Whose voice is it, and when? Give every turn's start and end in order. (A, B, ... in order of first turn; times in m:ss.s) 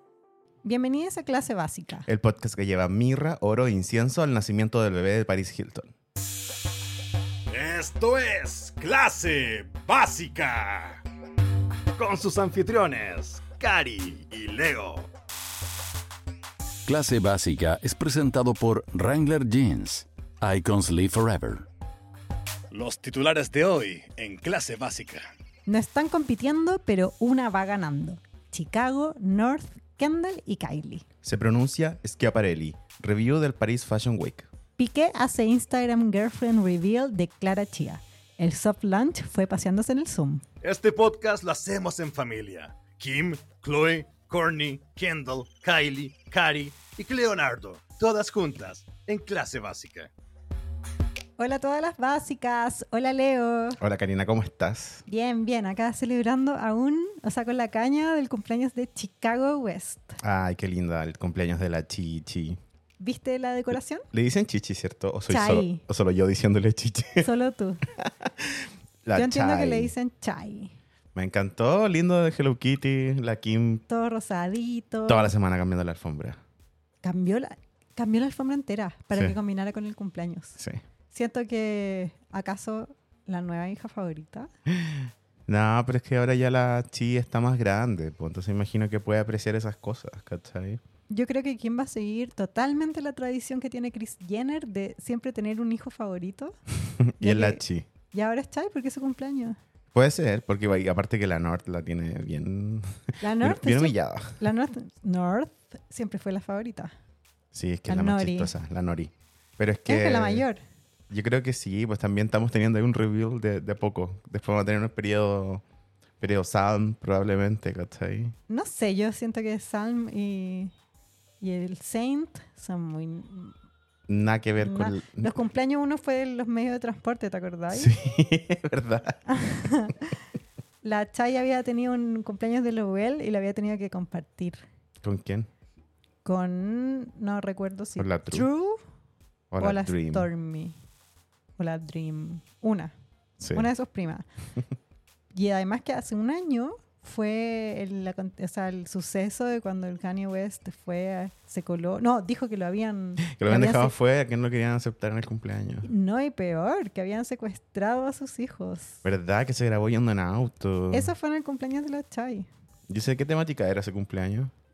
0:00.6-0:02.1 A
0:02.1-0:05.9 B
0:07.5-0:11.0 C
0:12.0-0:15.1 C
0:16.9-0:21.6 D
0:22.7-0:25.2 C
0:25.7-0:31.1 A
0:31.2-0:34.5 B
0:34.8-0:40.4 A
0:40.6-0:50.1 C
0:51.4-0:53.8 A
0:53.8-0:55.0 B
0:55.1-1:00.2 A
1:00.2-1:02.6 B
1:03.0-1:04.1 A
1:04.1-1:07.3 B
1:05.3-1:05.8 A
1:07.2-1:07.8 A
1:07.9-1:09.9 B
1:09.2-1:10.8 A
1:11.2-1:13.8 B
1:13.9-1:15.3 A
1:15.1-1:16.4 B
1:17.0-1:20.6 A
1:21.1-1:24.5 A
1:24.7-1:30.8 B
1:31.1-1:36.6 A
1:36.8-1:37.9 B
1:37.2-1:39.6 A
1:39.9-1:44.4 B
1:43.2-1:46.9 A
1:47.5-1:50.4 B
1:47.9-1:48.5 A
1:49.9-1:50.6 A
1:51.1-1:55.6 B
1:56.2-1:58.4 B
1:58.5-2:00.7 A
2:01.4-2:03.5 A
2:04.1-2:05.4 B
2:04.6-2:08.0 A
2:07.7-2:09.2 B
2:09.3-2:10.2 A
2:10.8-2:14.6 A
2:15.0-2:15.5 B
2:16.2-2:18.8 A
2:18.0-2:18.5 B
2:19.5-2:20.3 B
2:19.6-2:20.8 A
2:21.6-2:22.9 A
2:23.4-2:23.7 B
2:23.5-2:24.2 A
2:25.3-2:33.9 A
2:33.2-2:35.9 B
2:35.8-2:39.0 A
2:39.0-2:41.1 B
2:40.9-2:42.5 A
2:42.9-2:44.5 B